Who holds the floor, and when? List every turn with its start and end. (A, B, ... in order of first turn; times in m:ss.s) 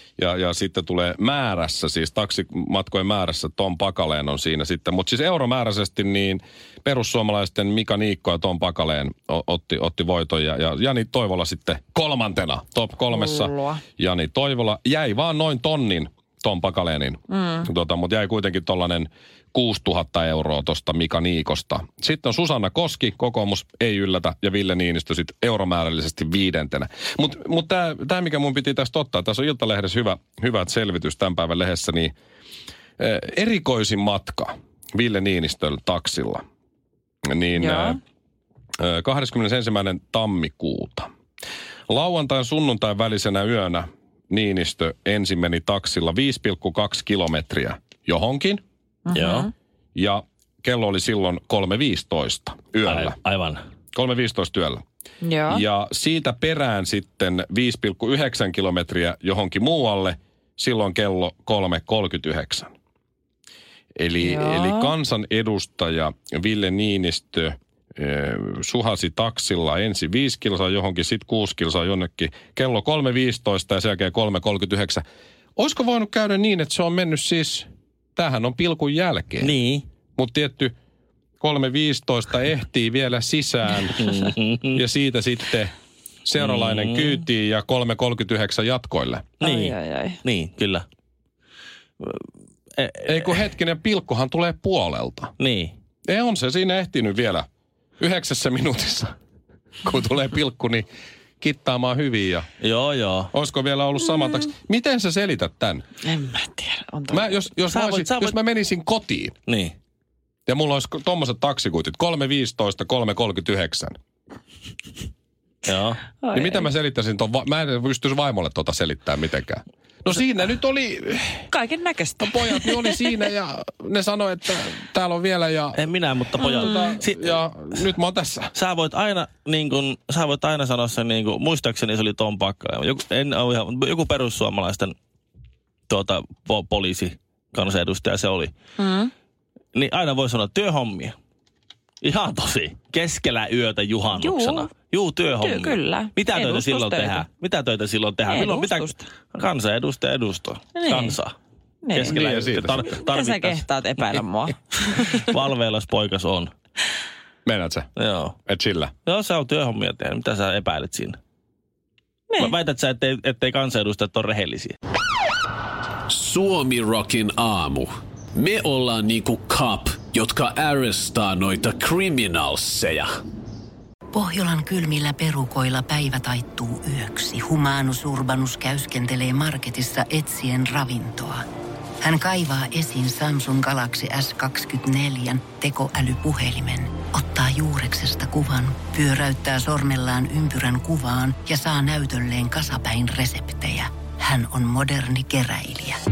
0:00.2-0:32.1 A
0:13.1-0:13.8 B
0:17.3-0:17.7 B
0:33.0-0:36.4 A
0:37.3-0:38.0 A
0:37.6-0:38.0 B
0:38.8-0:41.1 A
0:41.9-0:48.6 A
0:49.1-0:49.5 B
0:49.1-0:49.5 C
0:50.0-0:53.2 A
0:52.8-0:53.6 C
0:53.9-0:54.8 A
0:55.2-0:55.6 B
0:55.5-1:02.7 A
1:04.0-1:15.0 A
1:04.2-1:04.9 B
1:15.6-1:19.5 A
1:19.4-1:19.9 C
1:20.2-1:20.7 A
1:21.4-1:24.1 A
1:24.0-1:24.8 C
1:24.7-1:25.7 A
1:26.2-1:29.3 A
1:26.4-1:27.3 C
1:29.4-1:30.2 B
1:29.4-1:30.9 C
1:32.8-1:33.4 C
1:33.0-1:35.3 A
1:35.4-1:35.8 C
1:36.1-1:37.5 A
1:38.0-1:39.1 A
1:39.8-1:40.9 A
1:41.4-1:42.5 A
1:42.6-1:43.3 C
1:43.3-1:45.8 A
1:46.0-1:47.4 B
1:47.1-1:49.4 A
1:47.7-1:48.4 C
1:49.5-1:49.8 C
1:50.5-1:54.0 A
1:55.6-1:56.0 C
1:56.2-1:56.7 B
1:56.3-2:01.5 A
2:01.5-2:03.0 B
2:02.2-2:05.8 A
2:05.8-2:07.8 C
2:06.4-2:06.9 B
2:06.4-2:08.5 A
2:08.5-2:15.0 C
2:15.9-2:18.5 C
2:18.8-2:19.1 B
2:19.7-2:21.2 C
2:22.0-2:31.4 C
2:24.1-2:24.7 B
2:25.4-2:27.3 B
2:28.3-2:29.0 B
2:30.8-2:31.2 B
2:31.8-2:35.3 B
2:32.0-2:33.0 A
2:32.0-2:33.7 C
2:35.0-2:36.5 C
2:37.5-2:37.9 A
2:38.0-2:38.4 C
2:38.5-2:38.9 A
2:39.1-2:41.2 C
2:42.4-2:44.8 C
2:46.1-2:53.1 D
2:54.1-3:01.4 E
3:02.0-3:16.0 E